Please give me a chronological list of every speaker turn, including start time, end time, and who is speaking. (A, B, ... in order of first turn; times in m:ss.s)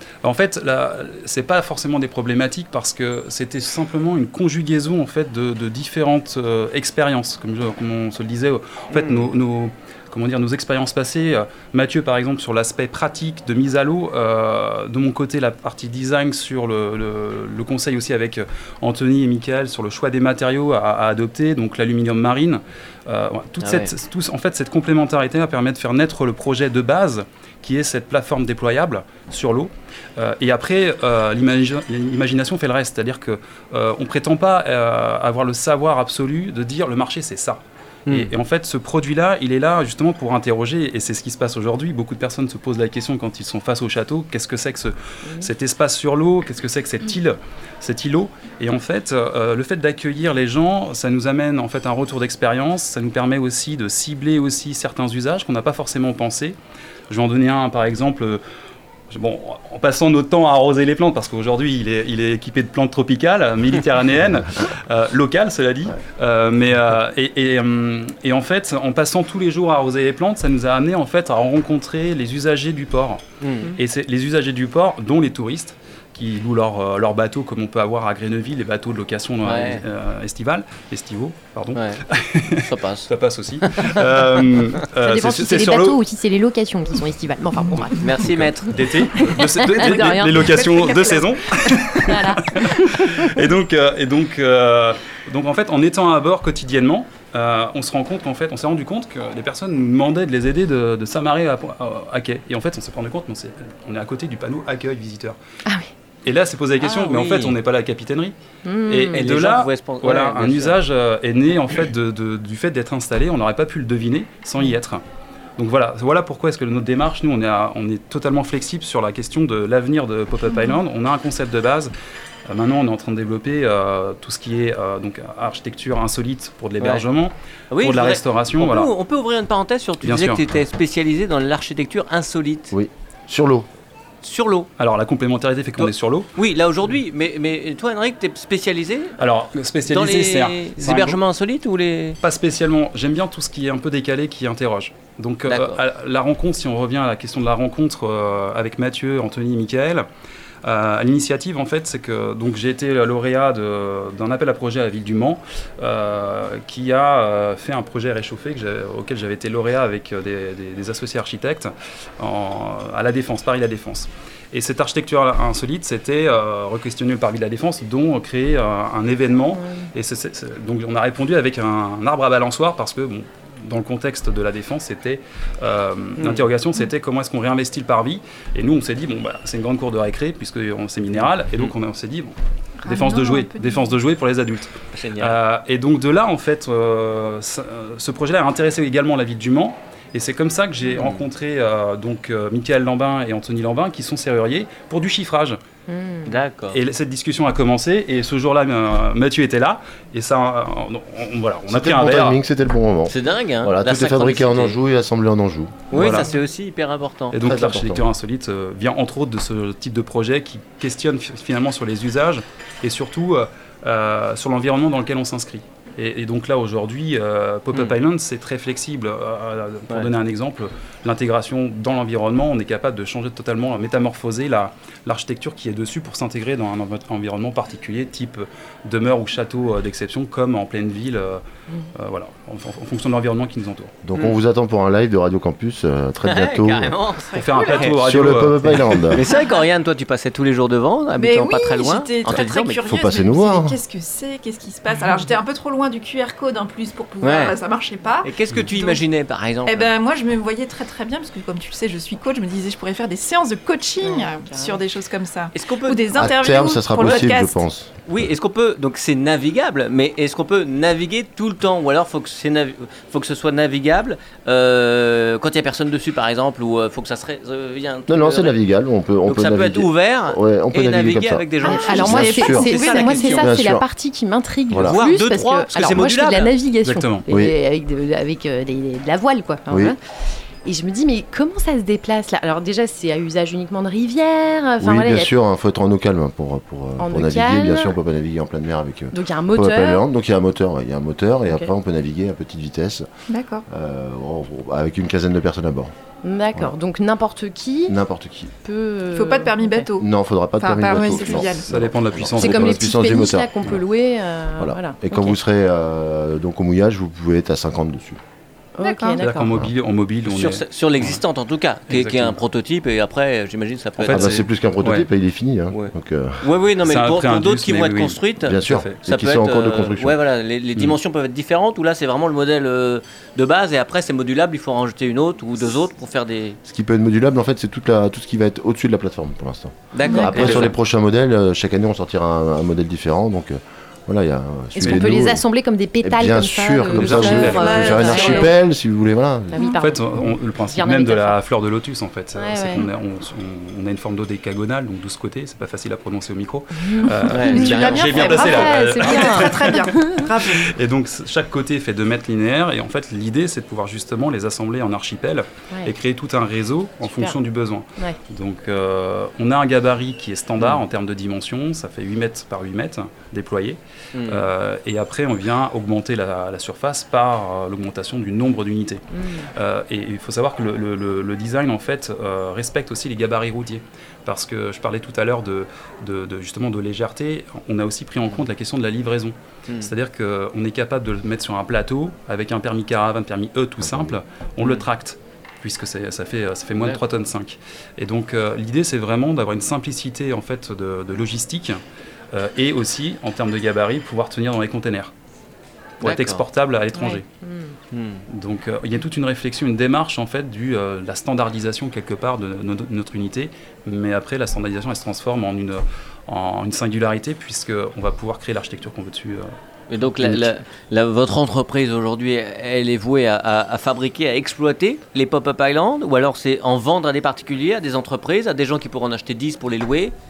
0:00.2-0:56.6 A
0:08.9-0:09.3 B
0:23.6-0:23.9 B
0:57.1-0:58.4 A
0:59.1-1:26.0 A
1:13.4-1:13.8 B
1:19.4-1:19.8 B
1:21.8-1:22.0 B
1:22.6-1:23.1 B
1:23.6-1:24.0 B
1:25.0-1:28.1 C
1:28.0-1:28.8 B
1:28.2-1:45.4 A
1:29.2-1:30.6 C
1:29.8-1:31.9 D
1:32.0-1:33.4 C
1:46.2-1:48.4 A
1:46.8-1:47.6 B
1:48.6-1:49.2 C
1:48.9-1:55.0 A
1:49.1-1:50.8 B
1:55.6-2:01.9 A
2:00.5-2:00.8 D
2:02.5-2:08.9 A
2:07.7-2:12.7 B
2:10.0-2:10.4 A
2:12.7-2:13.7 E
2:14.2-2:14.7 B
2:14.8-2:16.3 A
2:15.8-2:19.2 B
2:19.2-2:21.2 A
2:19.9-2:22.2 B
2:22.2-2:30.1 A
2:25.5-2:25.8 B
2:30.6-3:15.6 A
2:49.6-2:49.9 C
2:56.2-2:56.4 B
3:02.8-3:03.9 D
3:04.9-3:05.4 B
3:10.9-3:11.2 B
3:15.9-3:16.3 C
3:16.3-3:16.8 B
3:16.7-3:22.4 A
3:21.7-3:26.0 E
3:23.1-3:24.8 B
3:25.9-3:27.4 B
3:25.9-3:26.3 A
3:27.3-3:51.4 A
3:27.4-3:28.0 E
3:52.0-3:53.9 A
3:54.0-3:57.0 E
3:56.2-3:58.0 B
3:57.3-3:57.9 D
3:57.4-3:59.0 A
3:58.0-3:59.2 E
3:59.1-4:02.8 B
3:59.3-3:59.6 D
4:01.2-4:09.0 D
4:02.8-4:03.8 E
4:07.2-4:07.6 B
4:08.2-4:09.9 B
4:09.6-4:17.6 D
4:14.0-4:14.8 C
4:15.5-4:16.0 B
4:16.1-4:17.9 E
4:17.0-4:17.3 B
4:18.1-4:28.6 B
4:28.1-4:33.9 E
4:29.2-4:33.5 B
4:31.6-4:40.0 C
4:31.7-4:33.3 D
4:34.7-4:35.0 E
4:34.8-4:36.5 B
4:36.8-4:37.2 A
4:37.3-4:37.6 E
4:39.7-4:40.0 E
4:40.6-4:45.3 C
4:44.8-4:53.1 E
4:47.0-4:47.9 C
4:49.1-4:50.0 C
4:53.3-4:53.7 D
4:53.7-4:55.9 E
4:56.2-4:58.0 C
4:57.9-4:58.5 E
4:58.6-4:59.8 C
4:59.1-5:00.1 D
5:00.0-5:03.8 E
5:00.6-5:01.7 D
5:01.0-5:01.5 C
5:01.7-5:02.9 A
5:02.4-5:05.4 C
5:04.6-5:08.2 E
5:08.8-5:09.5 C
5:08.8-5:09.2 D
5:09.2-5:11.2 A
5:10.3-5:14.4 B
5:11.9-5:12.4 A
5:14.0-5:15.1 A
5:14.1-5:16.4 E
5:15.7-5:26.6 B
5:16.8-5:19.0 A
5:18.4-5:20.2 E
5:26.6-5:35.4 E
5:29.9-5:30.8 B
5:30.0-5:30.3 C
5:30.4-5:30.6 A
5:34.8-5:38.5 C
5:36.0-5:39.8 E
5:36.9-5:38.1 A
5:37.4-5:38.5 D
5:39.5-5:40.1 C
5:39.8-6:09.0 A
5:40.7-5:41.4 C
5:42.4-5:42.9 C
5:46.9-5:50.3 C
5:47.3-5:48.6 B
5:47.4-5:50.7 D
5:57.0-5:57.4 C
6:04.2-6:04.5 B
6:09.1-6:09.5 C
6:09.6-6:31.8 A
6:23.8-6:24.2 E
6:32.3-6:35.1 A
6:36.0-6:37.3 A
6:36.0-6:36.4 B
6:37.0-6:37.7 C
6:37.9-6:38.2 B
6:38.3-6:49.5 A
6:49.9-7:00.2 B
6:50.2-6:50.5 E